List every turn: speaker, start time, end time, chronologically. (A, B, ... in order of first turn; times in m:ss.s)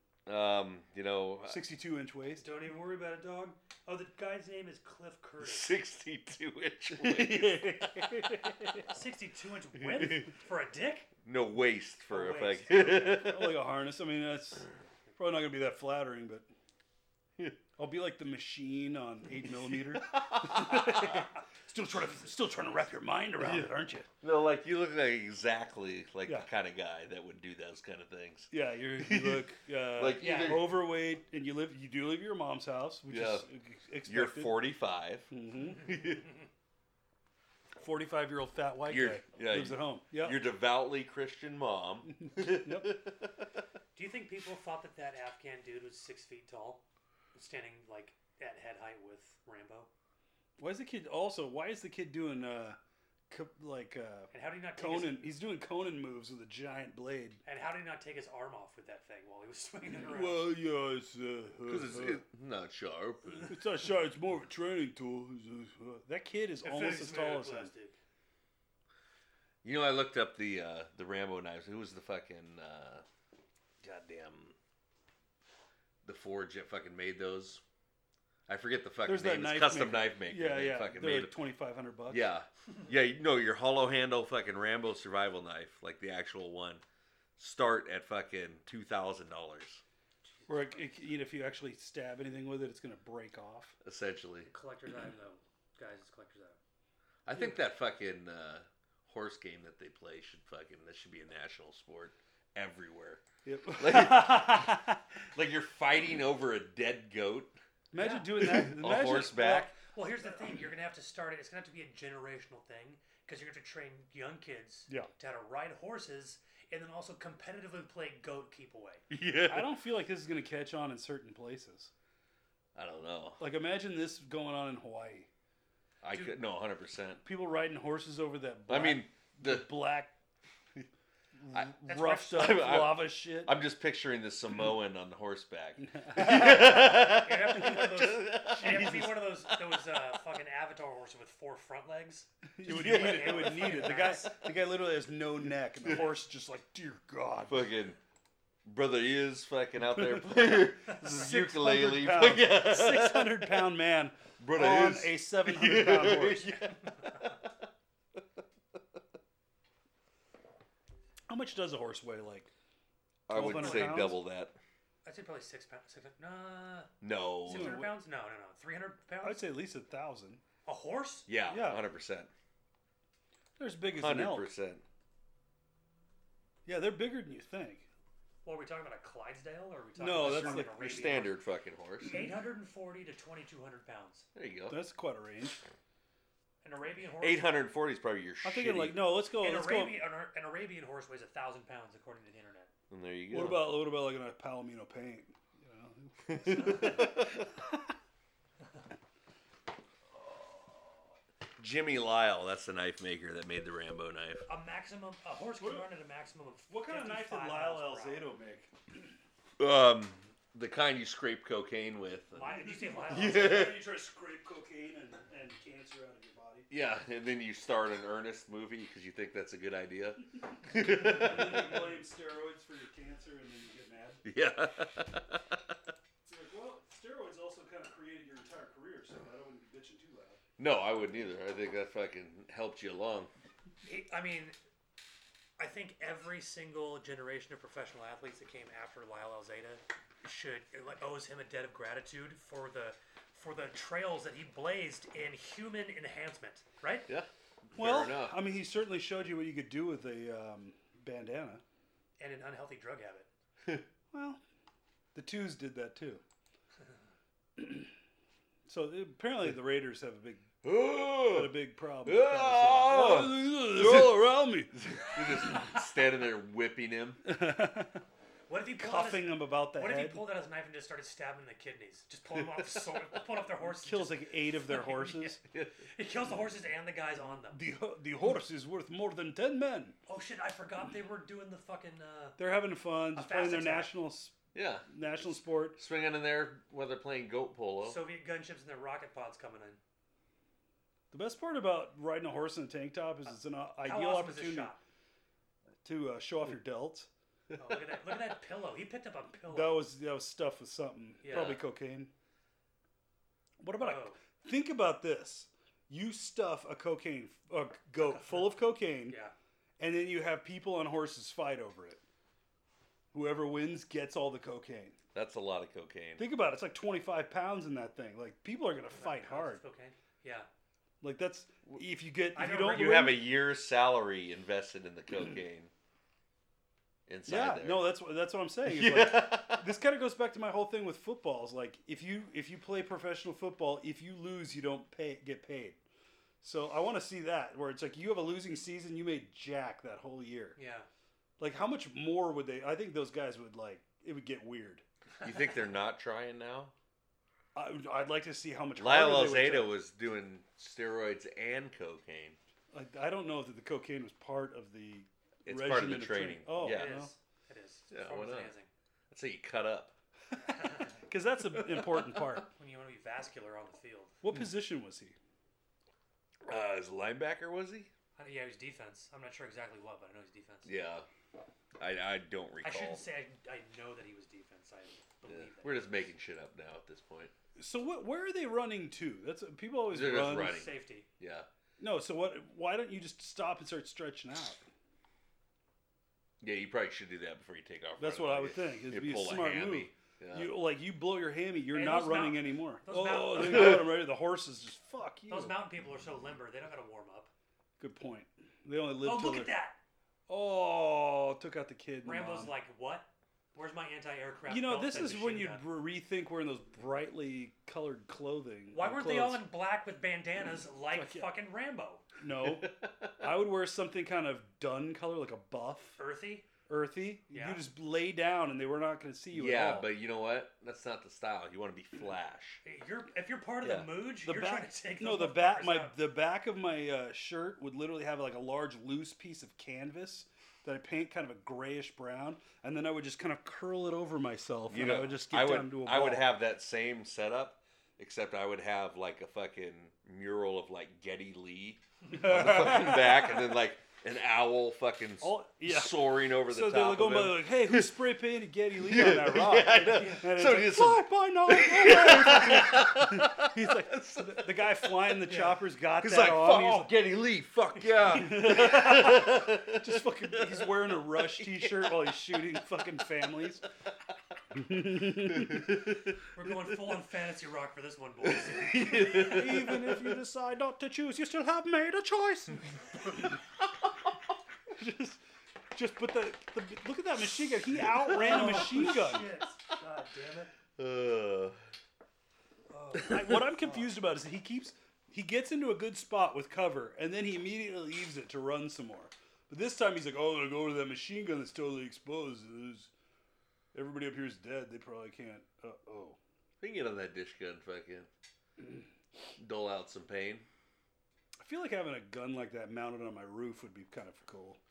0:00.2-0:01.6 A
0:01.5-0:02.4 B
0:02.4-0:05.8 C
0:05.4-0:08.1 A
0:07.0-0:08.8 B
0:08.9-0:11.1 C
0:11.2-0:13.6 A
0:12.1-0:13.2 C
0:12.7-0:16.5 B
0:17.8-0:24.1 B
0:20.0-0:21.1 A
0:23.4-0:30.7 A
0:28.5-0:34.6 B
0:30.2-0:30.7 C
0:33.1-0:33.4 A
0:34.0-0:36.2 A
0:35.3-0:35.8 B
0:37.8-0:40.4 B
0:38.9-0:43.5 A
0:42.3-0:43.0 B
0:43.9-0:46.8 C
0:47.3-0:49.9 C
0:50.6-0:52.8 B
0:53.3-0:57.4 B
0:54.3-0:55.2 C
0:57.4-1:00.5 C
1:00.0-1:02.2 B
1:01.7-1:03.5 A
1:03.4-1:07.7 B
1:06.6-1:08.0 C
1:09.6-1:13.0 A
1:13.8-1:14.6 A
1:16.0-1:17.6 A
1:18.5-1:21.4 A
1:19.0-1:22.3 B
1:22.1-1:26.8 A
1:27.4-1:29.8 A
1:30.3-1:30.9 C
1:30.5-1:33.7 B
1:33.8-1:34.5 A
1:34.5-1:36.6 C
1:37.2-1:43.2 A
1:43.4-1:45.0 B
1:43.8-1:44.8 A
1:45.3-1:47.6 A
1:47.9-1:49.8 B
1:48.0-1:48.5 C
1:48.4-1:49.7 A
1:49.8-1:59.0 C
1:59.1-1:59.7 A
1:59.5-2:01.9 B
2:02.7-2:03.4 A
2:03.4-2:05.3 B
2:06.0-2:07.2 A
2:07.2-2:10.1 B
2:08.7-2:09.7 A
2:11.4-2:13.6 B
2:11.5-2:19.6 A
2:11.9-2:12.7 C
2:15.8-2:17.0 B
2:16.4-2:24.4 C
2:22.5-2:27.7 B
2:22.6-2:23.8 A
2:27.5-2:28.0 A
2:28.6-2:33.6 A
2:30.0-2:36.5 B
2:34.4-2:37.5 A
2:41.3-2:42.5 B
2:43.3-2:44.6 A
2:43.3-2:44.2 B
2:43.4-2:44.1 C
2:45.0-2:46.9 C
2:47.0-2:47.8 A
2:47.4-2:49.5 C
2:47.5-2:47.9 B
2:49.2-2:50.4 B
2:50.6-2:51.3 C
2:51.3-2:52.3 A
2:51.5-2:51.8 B
2:53.6-2:54.5 B
2:54.0-2:54.8 A
2:56.6-2:57.8 B
2:58.4-3:01.3 C
3:00.0-3:01.0 B
3:00.2-3:02.2 A
3:02.0-3:04.3 C
3:04.3-3:04.8 A
3:04.7-3:05.6 B
3:06.6-3:07.5 C
3:07.2-3:09.0 A
3:08.4-3:10.1 B
3:09.3-3:12.7 C
3:12.9-3:13.7 A
3:13.3-3:17.5 B
3:16.2-3:17.5 A
3:16.5-3:17.2 C
3:21.6-3:24.4 A
3:24.5-3:28.3 C
3:25.6-3:25.9 B
3:26.7-3:28.7 B
3:29.6-3:33.8 A
3:32.3-3:33.7 C
3:32.5-3:36.7 B
3:36.7-3:41.8 A
3:40.7-3:44.2 B
3:44.2-3:45.4 A
3:46.2-3:50.4 B
3:50.6-3:53.3 A
3:53.8-3:54.5 C
3:55.6-4:07.1 C
4:07.1-4:08.4 A
4:07.8-4:11.6 B
4:12.2-4:13.3 C
4:14.1-4:14.4 B
4:15.1-4:16.2 B
4:17.6-4:17.9 B
4:18.7-4:20.5 B
4:20.6-4:27.2 A
4:21.2-4:24.7 B
4:25.4-4:25.7 C
4:27.2-4:28.0 B
4:28.5-4:37.6 C
4:28.8-4:30.2 B
4:33.6-4:35.4 B
4:35.5-4:35.8 A
4:37.5-4:40.0 B
4:40.1-4:42.4 C
4:42.4-4:44.3 B
4:43.1-4:44.0 C
4:44.5-4:44.9 A
4:44.9-4:45.8 B
4:45.7-4:48.0 A
4:47.8-4:49.8 C
4:51.1-4:54.7 B
4:53.8-4:54.8 C
4:55.8-4:57.1 B
4:57.6-4:59.9 C
4:59.5-5:02.1 B
5:01.2-5:01.6 C
5:01.3-5:01.6 A
5:03.6-5:09.2 B
5:03.8-5:04.2 C
5:09.1-5:09.3 C
5:09.8-5:12.0 B
5:13.1-5:15.0 B
5:15.1-5:16.3 A
5:16.2-5:19.6 B
5:18.9-5:20.5 C
5:21.0-5:23.2 B
5:22.3-5:23.2 C
5:22.6-5:25.7 A
5:27.1-5:27.8 A
5:27.3-5:35.8 B
5:28.6-5:29.6 A
5:36.4-5:40.6 B
5:40.6-5:40.9 C
5:41.4-5:44.8 B
5:45.2-5:46.7 A
5:47.5-5:49.7 B
5:48.8-5:52.4 A
5:52.7-5:57.1 B
5:55.4-5:57.0 A
5:56.6-5:58.7 C
5:57.9-5:58.5 A
5:59.1-5:59.9 A
6:00.4-6:01.0 C
6:01.0-6:02.5 B
6:02.4-6:04.1 C
6:04.2-6:05.2 B
6:06.5-6:07.9 A
6:08.2-6:10.7 C
6:10.6-6:11.0 A
6:11.8-6:13.0 A
6:12.6-6:16.1 C
6:15.3-6:17.3 A
6:17.6-6:20.6 B
6:19.9-6:21.5 A
6:20.3-6:21.1 C
6:21.8-6:24.6 B
6:26.4-6:30.6 A
6:28.0-6:35.5 B
6:31.7-6:34.0 C
6:35.3-6:37.3 C
6:37.8-6:39.5 B
6:39.0-6:39.8 C
6:40.3-6:42.5 B
6:42.0-6:45.6 C
6:44.5-6:49.4 B
6:48.7-6:52.0 C
6:50.9-6:51.3 B
6:52.2-6:56.0 B
6:52.4-6:53.2 A
6:56.0-6:56.5 C
6:56.7-6:59.9 B
6:57.3-6:57.6 C
6:59.3-7:02.6 A
7:02.6-7:06.0 C
7:03.6-7:03.9 A
7:04.2-7:16.3 B
7:14.7-7:28.0 A
7:22.1-7:23.3 B
7:25.2-7:36.9 B
7:28.8-7:34.6 A
7:29.9-7:30.2 C
7:35.2-7:35.6 C
7:36.0-7:41.9 A
7:37.9-7:38.5 C
7:38.1-7:43.6 B
7:44.5-7:45.8 B
7:45.2-7:46.0 A
7:46.3-7:49.5 C
7:48.2-7:50.0 A
7:48.9-7:53.4 B
7:54.7-7:55.2 B
7:55.7-7:59.3 B
7:58.0-8:00.5 C
8:00.8-8:01.6 A
8:02.7-8:03.8 C
8:03.0-8:12.9 B
8:13.7-8:16.2 B
8:16.6-8:18.1 A
8:19.4-8:20.4 A
8:21.4-8:24.6 B